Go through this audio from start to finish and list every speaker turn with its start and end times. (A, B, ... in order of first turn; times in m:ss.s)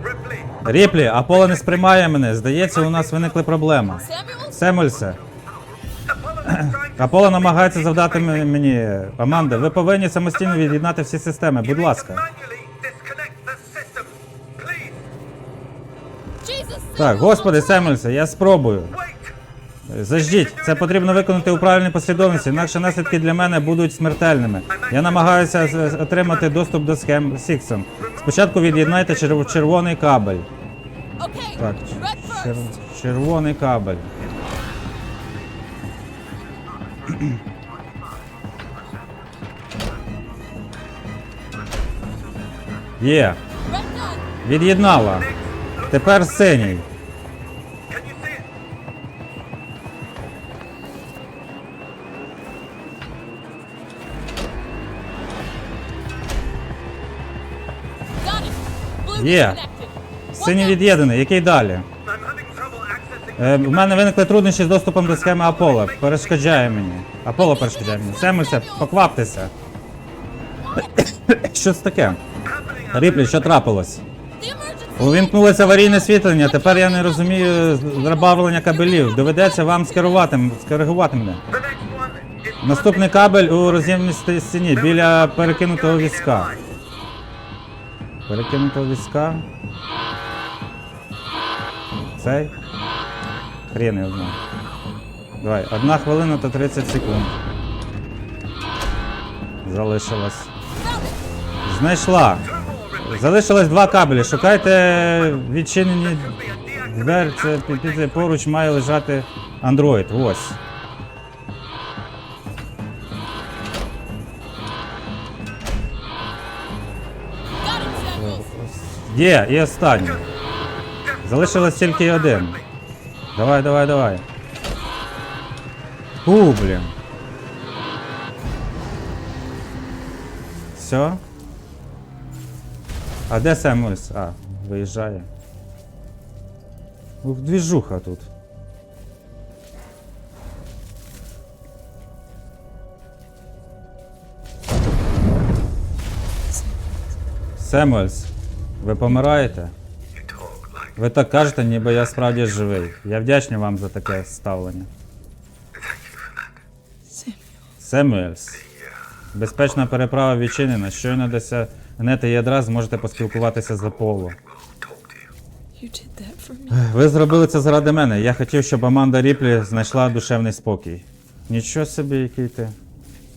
0:00.6-0:05.2 A
0:04.0-0:04.6 B
0:06.4-0:12.3 A
0:16.4-0:17.9 B
0:17.0-0:19.0 A
0:19.9-0:30.5 A
0:31.2-0:32.7 B
0:31.6-0:34.1 A
0:43.0-0:43.4 A
0:43.7-0:44.3 B
0:44.4-0:45.3 A
0:45.8-0:46.9 A
0:58.2-1:00.8 B
0:59.1-0:59.6 A
1:00.3-1:01.9 A
1:03.4-1:09.5 A
1:07.4-1:08.9 B
1:10.8-1:12.2 A
1:12.9-1:14.0 A
1:14.4-1:15.9 B
1:15.0-1:21.4 A
1:16.6-1:18.2 B
1:18.9-1:19.2 B
1:22.6-1:26.6 A
1:28.3-1:29.5 A
1:32.2-1:32.5 A
1:33.7-1:34.4 A
1:35.4-1:37.3 A
1:39.6-1:40.5 A
1:40.8-1:41.2 B
1:41.6-1:50.6 A
1:57.6-1:58.4 B
1:58.1-2:00.2 A
2:01.2-2:02.6 A
2:03.4-2:04.2 A
2:06.2-2:06.9 A
2:10.8-2:11.2 A
2:13.3-2:15.3 A
2:17.2-2:18.3 A
2:27.6-2:29.7 A
2:31.0-2:34.9 A
2:37.1-2:37.4 B
2:37.8-2:38.6 A
2:39.3-2:44.4 A
2:45.8-2:46.8 B
2:46.7-2:52.8 A